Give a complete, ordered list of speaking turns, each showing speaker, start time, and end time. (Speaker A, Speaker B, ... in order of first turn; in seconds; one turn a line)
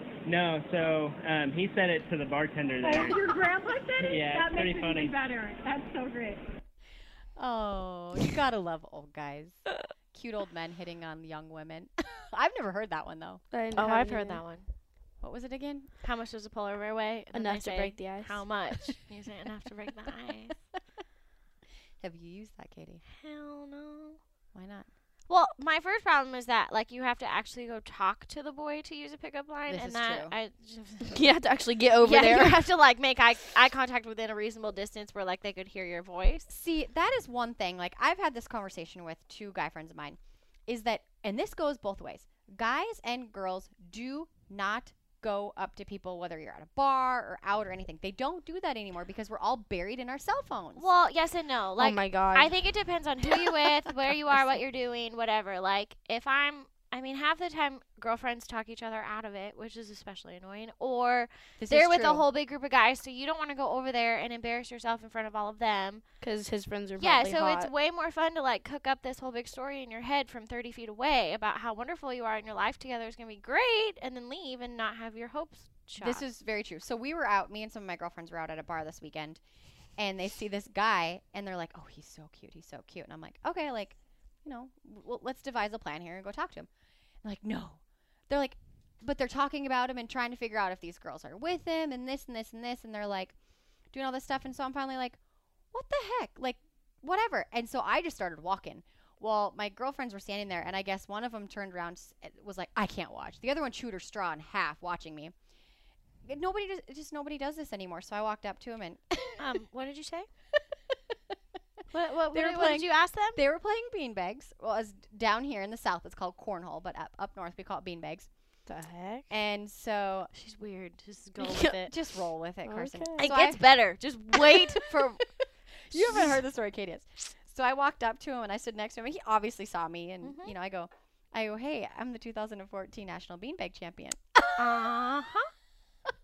Speaker A: 0.2-3.2
Speaker B: 2.8-6.5
Speaker A: 4.0-5.1
Speaker C: 7.4-13.4
Speaker D: 13.5-14.4
Speaker E: 13.8-14.7
Speaker C: 15.2-15.9
Speaker E: 16.0-20.6
Speaker D: 17.3-18.4
Speaker C: 22.0-23.0
Speaker E: 23.2-24.2
Speaker C: 24.5-24.9
Speaker E: 25.3-31.3
Speaker C: 29.7-30.4
Speaker D: 31.1-32.6
Speaker E: 32.0-36.5
Speaker C: 36.5-50.9
Speaker E: 50.8-66.0
Speaker D: 51.8-52.5
Speaker C: 61.6-62.2
Speaker D: 66.2-67.7
Speaker E: 67.0-76.2
Speaker C: 76.0-79.4
Speaker C: 80.0-86.7
Speaker C: 87.2-93.4
Speaker C: 93.9-95.2
Speaker C: 95.7-105.3
Speaker C: 106.2-109.4
Speaker E: 109.4-110.3
Speaker E: 111.9-113.4
Speaker C: 112.3-118.3
Speaker D: 118.7-119.3
Speaker C: 119.3-120.3
Speaker E: 120.3-121.9
Speaker D: 121.4-121.8
Speaker C: 121.8-123.6
Speaker D: 122.6-123.5
Speaker E: 123.2-125.2
Speaker C: 124.4-125.0
Speaker C: 125.9-134.2
Speaker E: 125.9-126.3
Speaker E: 130.2-130.6
Speaker E: 134.6-135.5